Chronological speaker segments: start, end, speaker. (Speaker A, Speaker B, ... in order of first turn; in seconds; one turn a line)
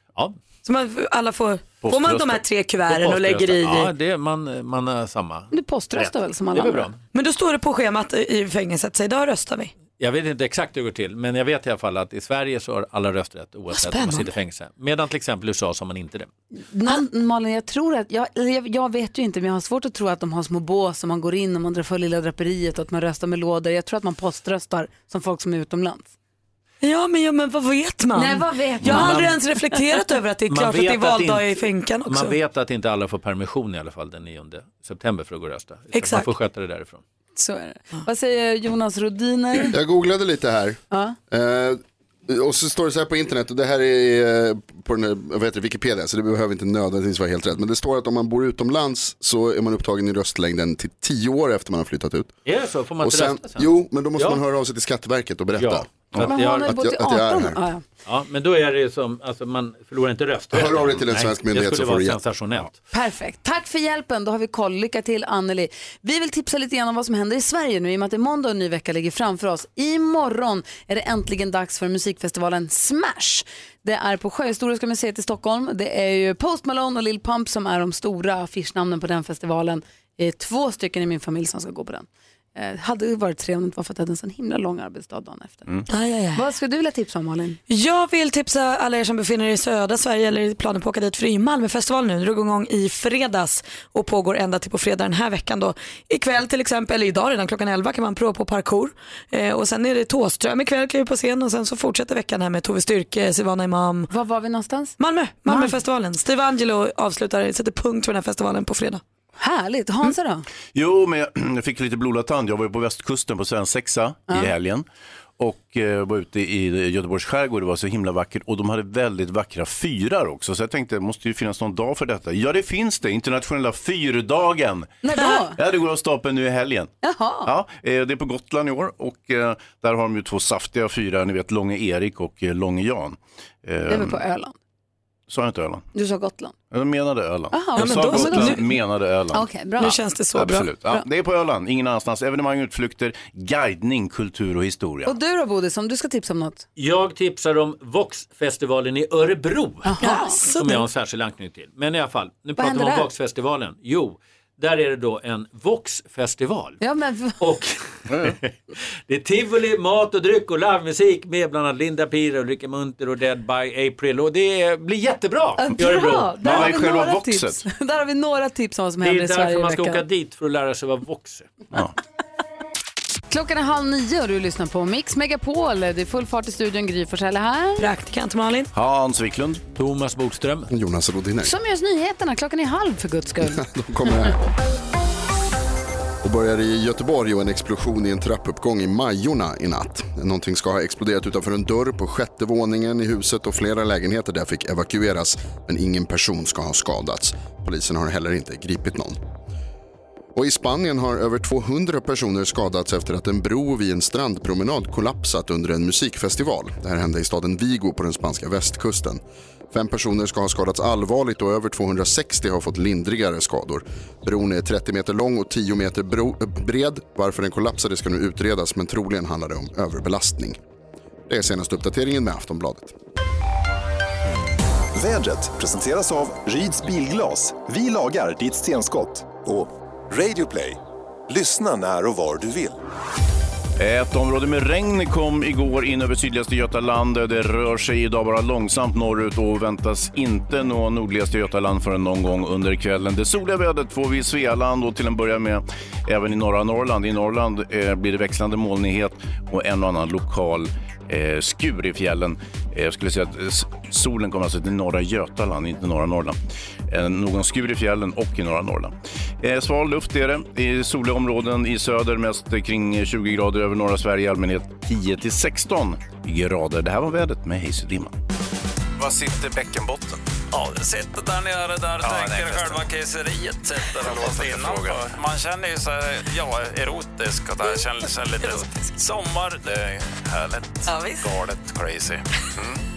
Speaker A: 0.6-3.9
Speaker B: 1.8-2.4
Speaker C: 2.9-7.0
Speaker D: 5.5-6.9
Speaker A: 7.1-9.8
Speaker C: 10.0-16.3
Speaker A: 13.7-14.3
Speaker D: 16.7-26.1
Speaker A: 26.8-32.4
Speaker D: 28.1-29.5
Speaker C: 28.9-29.4
Speaker C: 30.5-37.0
Speaker A: 35.9-36.3
Speaker D: 37.4-39.8
Speaker E: 39.7-52.3
Speaker D: 40.9-41.2
Speaker C: 52.5-54.4
Speaker E: 53.0-57.6
Speaker C: 55.6-56.8
Speaker D: 56.2-57.8
Speaker C: 58.0-62.7
Speaker E: 60.5-62.2
Speaker D: 62.9-85.7
Speaker A: 85.9-86.4
Speaker D: 86.3-87.6
Speaker A: 87.7-104.1
Speaker D: 104.1-105.0
Speaker A: 105.0-109.0
Speaker D: 105.5-105.8
Speaker D: 109.4-110.5
Speaker B: 110.7-114.9
Speaker B: 115.4-126.9
Speaker D: 125.0-125.6
Speaker D: 127.0-127.5
Speaker B: 127.5-134.2
Speaker D: 133.9-134.6
Speaker B: 135.3-135.9
Speaker D: 135.9-136.6
Speaker B: 136.7-139.5
Speaker D: 137.5-138.6
Speaker A: 137.8-138.6
Speaker D: 139.3-140.0
Speaker A: 139.8-140.7
Speaker B: 140.3-145.2
Speaker D: 145.1-146.7
Speaker C: 146.8-150.0
Speaker D: 149.8-150.4
Speaker A: 150.0-150.8
Speaker C: 150.5-156.8
Speaker D: 152.6-153.1
Speaker D: 156.8-157.4
Speaker C: 157.4-158.5
Speaker B: 158.1-158.3
Speaker C: 159.1-166.7
Speaker D: 165.6-170.0
Speaker B: 166.4-167.6
Speaker C: 169.0-171.5
Speaker D: 173.3-177.9
Speaker A: 177.8-178.7
Speaker B: 178.7-179.6
Speaker C: 179.7-180.7
Speaker E: 180.7-181.5
Speaker D: 181.4-183.7
Speaker E: 183.5-184.4
Speaker E: 186.2-199.2
Speaker E: 200.3-220.6
Speaker E: 221.3-222.9
Speaker F: 224.9-232.8
Speaker B: 233.8-256.4
Speaker B: 256.9-268.2
Speaker B: 269.0-270.2
Speaker G: 270.5-282.8
Speaker B: 272.0-272.8
Speaker B: 274.0-275.0
Speaker A: 280.9-281.2